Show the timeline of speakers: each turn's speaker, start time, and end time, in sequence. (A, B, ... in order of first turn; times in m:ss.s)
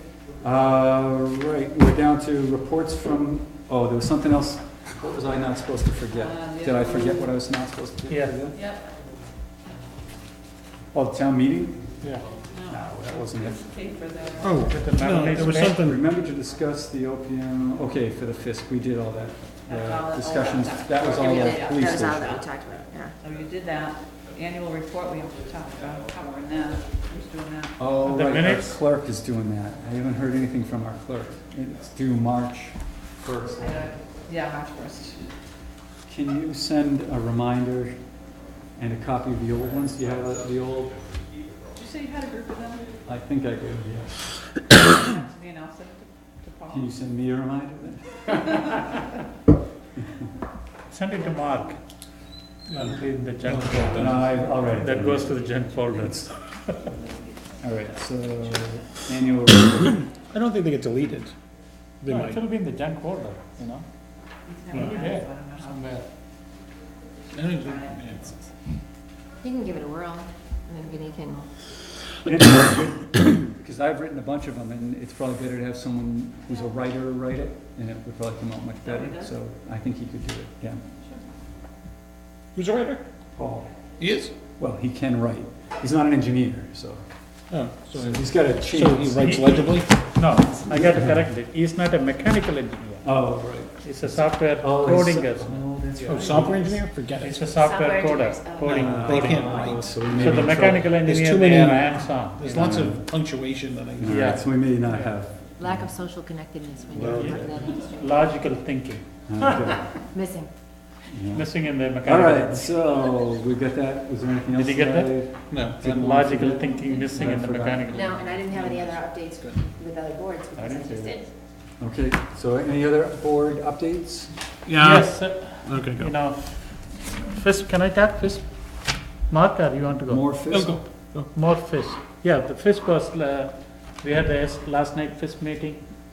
0:00.4-0:08.6 A
0:06.2-0:07.2 B
0:08.1-0:08.4 C
0:08.5-0:08.8 B
0:10.9-0:11.8 A
0:12.5-0:14.6 B
0:12.7-0:13.7 A
0:14.4-0:16.0 D
0:14.6-0:15.8 C
0:15.6-0:22.4 A
0:19.7-0:22.4 B
0:21.0-0:23.2 E
0:23.2-0:27.7 B
0:27.8-0:33.7 A
0:28.0-0:28.8 C
0:33.6-0:35.3 B
0:36.1-0:38.0 A
0:38.8-0:41.0 A
0:41.7-0:42.9 B
0:43.0-0:44.3 A
0:44.9-0:46.9 B
0:46.7-0:48.6 A
0:50.9-0:51.8 C
0:52.7-0:54.5 D
0:52.7-0:56.8 C
0:53.7-0:56.3 A
0:57.6-1:00.0 A
1:00.1-1:01.3 D
1:02.0-1:02.4 D
1:02.1-1:03.8 C
1:04.5-1:05.7 B
1:04.7-1:06.0 C
1:04.7-1:05.0 D
1:07.3-1:08.3 D
1:07.4-1:07.8 B
1:09.4-1:11.5 E
1:12.2-1:20.8 A
1:18.8-1:19.1 B
1:22.5-1:23.0 D
1:23.3-1:23.7 A
1:24.0-1:24.3 D
1:24.6-1:27.0 A
1:27.5-1:29.9 D
1:27.9-1:29.2 A
1:29.2-1:33.1 C
1:30.7-1:31.1 A
1:33.0-1:36.8 A
1:33.8-1:36.4 C
1:36.0-1:37.4 D
1:37.2-1:39.6 C
1:37.6-1:39.8 E
1:38.6-1:40.9 A
1:38.8-1:44.3 D
1:40.1-1:42.8 C
1:42.5-1:43.0 A
1:44.0-1:45.8 A
1:44.0-1:45.1 C
1:45.6-1:48.3 E
1:46.9-1:47.7 A
1:47.0-1:47.3 D
1:47.0-1:49.0 C
1:49.3-1:49.9 A
1:50.1-1:50.5 E
1:51.1-1:51.4 A
1:51.3-1:52.7 C
1:52.0-1:58.2 A
1:54.5-1:55.1 C
1:55.5-1:55.8 D
1:55.8-1:58.1 C
1:57.9-2:01.3 E
2:00.6-2:01.2 C
2:01.8-2:04.3 A
2:04.6-2:06.1 D
2:04.8-2:08.4 C
2:09.3-2:10.2 C
2:10.1-2:10.8 A
2:10.5-2:11.3 D
2:11.3-2:15.8 C